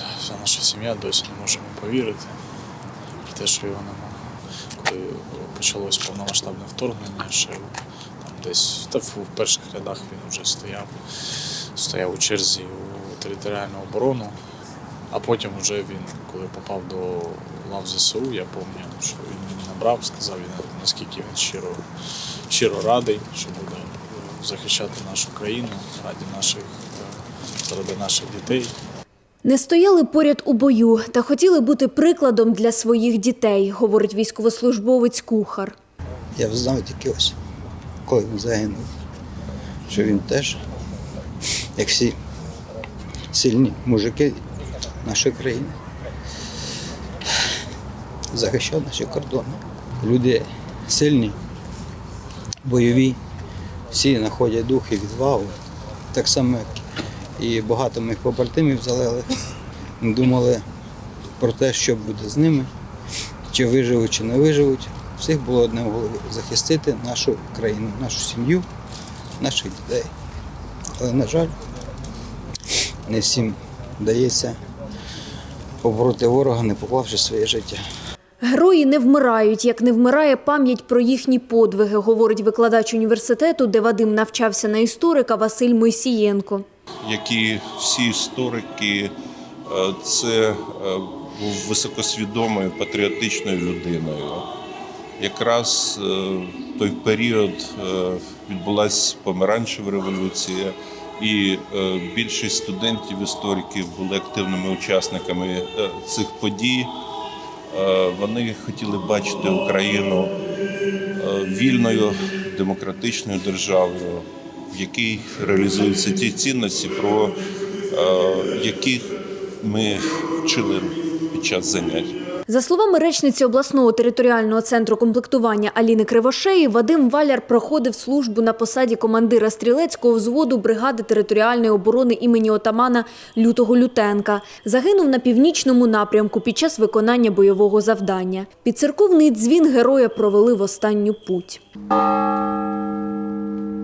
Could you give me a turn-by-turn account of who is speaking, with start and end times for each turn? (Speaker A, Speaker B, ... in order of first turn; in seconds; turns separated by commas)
Speaker A: 0.2-2.4, Speaker A: 3.3-4.2, Speaker A: 4.7-14.4, Speaker A: 15.1-21.9, Speaker A: 22.5-28.8, Speaker B: 29.4-35.8, Speaker C: 36.4-37.4, Speaker C: 38.1-38.9, Speaker C: 39.9-40.6, Speaker C: 41.8-42.1, Speaker C: 43.3-44.5, Speaker C: 45.0-45.8, Speaker C: 48.3-51.4, Speaker C: 52.6-53.2, Speaker C: 53.9-55.5, Speaker C: 56.1-56.8, Speaker C: 57.4-59.4, Speaker C: 60.0-60.6, Speaker C: 61.4-62.7, Speaker C: 63.5-68.7, Speaker C: 69.4-70.1, Speaker C: 71.0-71.5, Speaker C: 73.1-74.6, Speaker C: 75.8-77.8, Speaker B: 78.4-86.7, Speaker D: 87.0-89.1, Speaker D: 89.7-94.5, Speaker D: 95.2-107.0, Speaker D: 107.7-110.4, Speaker D: 111.2-117.4, Speaker D: 117.9-122.2, Speaker B: 122.5-141.6